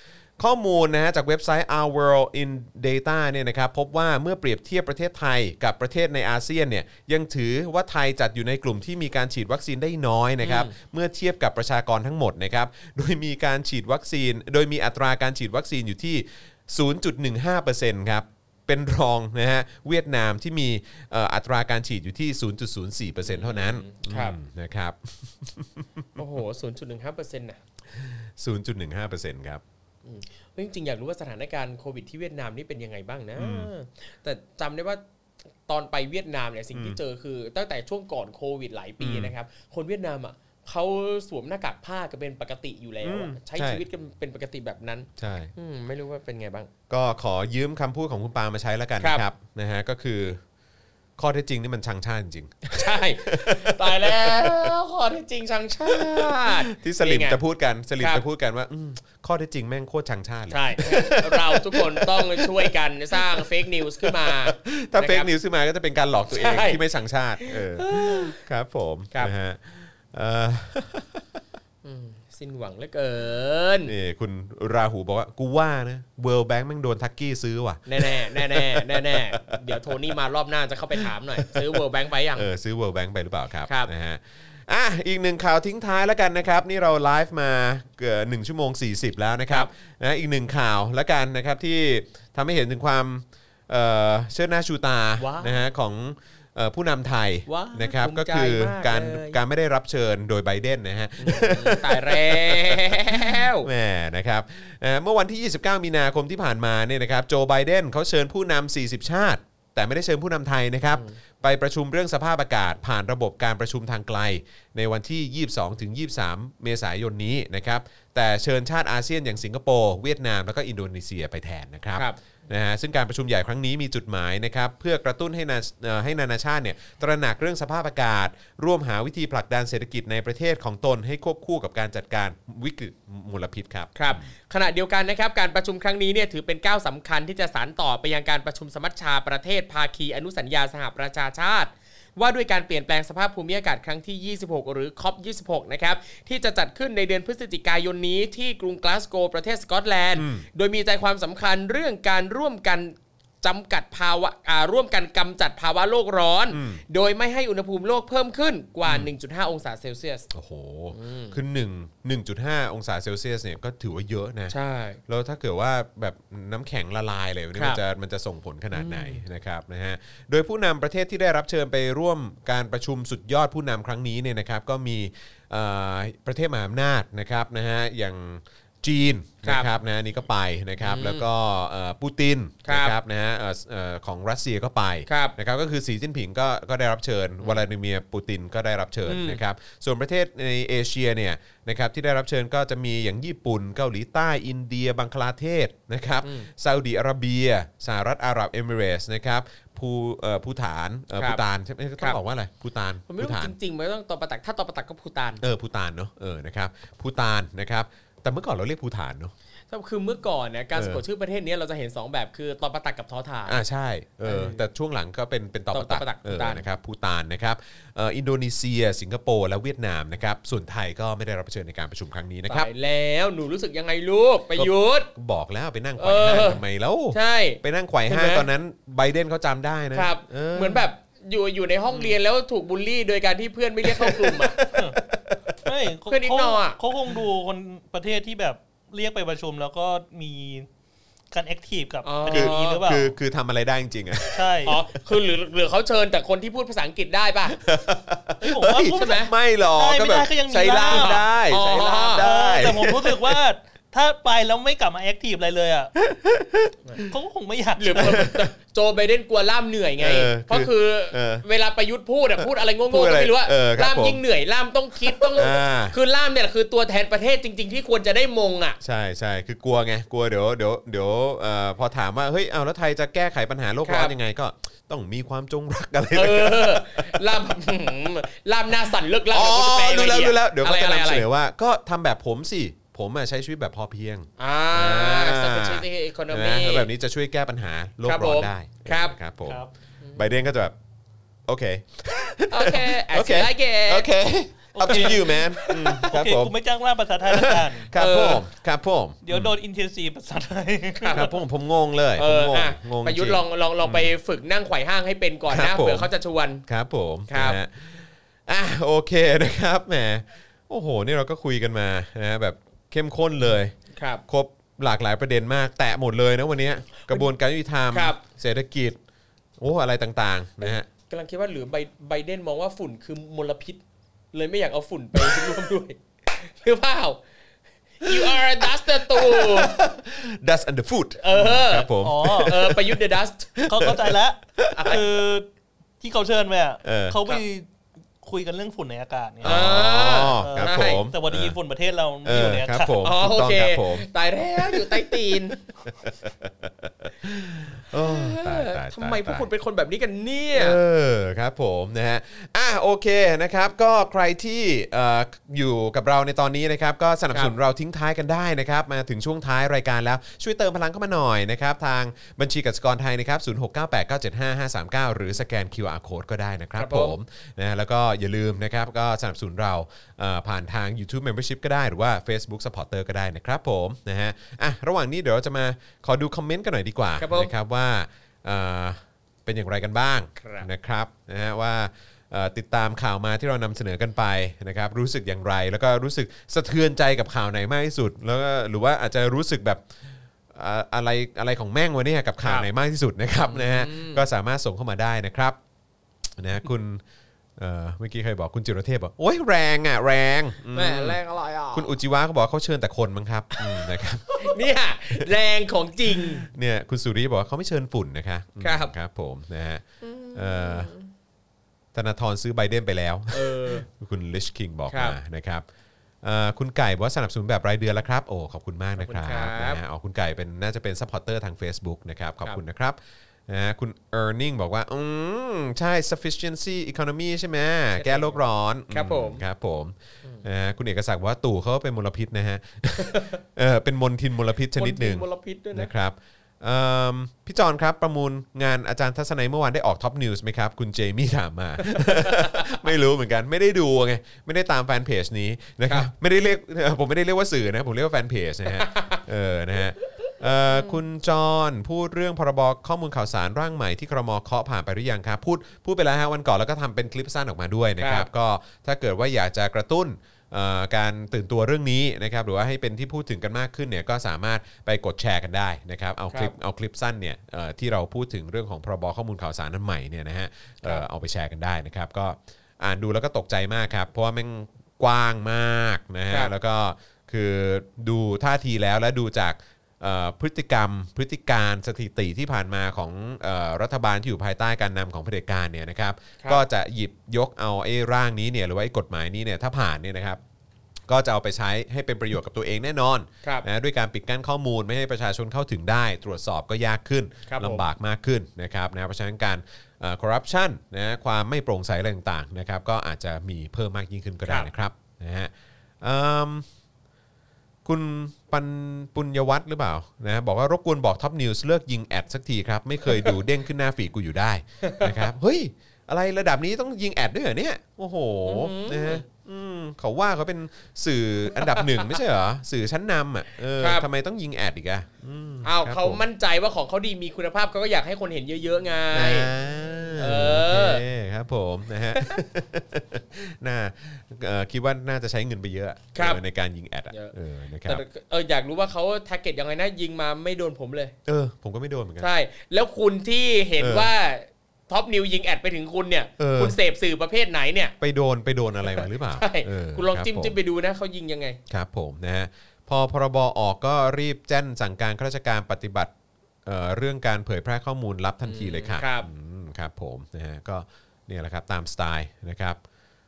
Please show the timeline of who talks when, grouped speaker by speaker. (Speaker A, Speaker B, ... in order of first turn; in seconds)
Speaker A: 0.4-26.2, 27.9-29.6, 33.4-33.7, 36.7-37.0, 39.0-39.3, 43.0-43.8, 45.2-45.5, 46.9-50.4, 51.2-54.7, 55.9-71.3, 73.8-80.0, 81.0-81.8, 82.3-134.2, 150.2-150.4, 156.5-156.8, 158.8-159.1, 160.3-164.5, 165.1-203.6, 205.4-209.3, 210.7-211.0, 213.4-222.7, 224.5-230.8, 231.9-232.2, 233.8-235.6, 242.3-244.5, 247.5-253.4, 256.0-257.1, 258.0-258.4, 260.0-261.4, 262.4-264.2, 265.1-266.0, 268.8-277.4, 279.3-289.6, 290.1-290.7, 291.4-296.5, 297.2-299.5, 301.1-304.1, 305.5-306.1, 306.6-313.7, 314.3-319.0, 319.6-320.9, 325.1-325.6, 328.0-335.0, 336.8-337.3, 339.4-341.6, 342.2-349.5, 350.5-395.6, 396.4-397.0, 397.6-401.2, 401.7-404.6, 406.1-410.9, 411.9-415.6, 416.2-490.4, 491.1-506.6, 507.8-526.2, 529.1-538.0, 541.2-542.3, 543.8-544.1, 546.4-546.8, 548.0-550.5, 551.7-556.1, 556.6-562.8
Speaker B: 10.4-10.7, 23.2-24.4, 26.1-27.6, 30.0-35.0, 35.7-46.7, 49.0-49.2, 52.7-57.4, 60.5-65.3, 66.3-66.8, 67.4-68.4, 71.8-73.9, 77.8-82.5, 95.2-95.6, 97.5-99.4, 101.2-103.7, 110.9-111.2, 133.9-160.3, 160.9-161.4, 164.5-165.0, 167.5-167.8, 168.7-169.2, 180.8-181.3, 182.6-182.9, 185.1-185.3, 189.1-189.4, 196.2-196.5, 201.2-201.4, 203.1-205.4, 209.7-213.6, 214.2-214.6, 215.7-216.6, 222.5-225.1, 226.0-226.6, 227.1-228.5, 229.9-234.6, 236.1-236.8, 242.0-242.8, 244.6-247.6, 248.9-249.3, 250.9-252.3, 257.8-268.8, 273.8-274.1, 276.1-281.2, 284.4-286.9, 288.1-289.2, 290.0-290.3, 292.5-294.1, 294.9-296.0, 297.9-298.4, 301.0-301.3, 302.1-306.6, 307.3-307.6, 313.9-314.2, 317.0-317.3, 317.9-318.2, 320.6-323.8, 324.3-327.2, 328.0-329.8, 331.2-333.5, 334.7-335.0, 339.4-341.0, 343.0-345.6, 347.9-350.8, 366.8-367.1, 377.2-377.5, 380.4-380.7, 392.4-392.7, 393.4-394.2, 400.7-401.9, 403.6-406.5, 408.6-408.9, 410.0-411.1, 413.3-413.9, 414.9-415.2, 419.0-419.8, 428.0-428.4, 428.9-429.4, 433.0-433.4, 434.7-435.9, 441.8-442.7, 448.7-449.2, 450.7-451.0, 458.0-458.3, 497.5-497.8, 514.8-515.1, 518.4-519.2, 521.7-522.1, 523.8-524.0, 525.6-529.5, 530.1-531.0, 536.1-536.4, 537.8-541.1, 542.2-547.9, 548.8-551.6, 558.4-559.3
Speaker C: 234.7-235.0, 235.6-240.7, 241.3-243.1, 244.3-244.8, 248.4-251.3, 252.2-255.9, 257.1-258.3, 294.7-297.9, 299.2-301.3, 332.0-332.7, 333.7-335.5, 336.0-337.7, 338.2-339.6, 340.4-343.0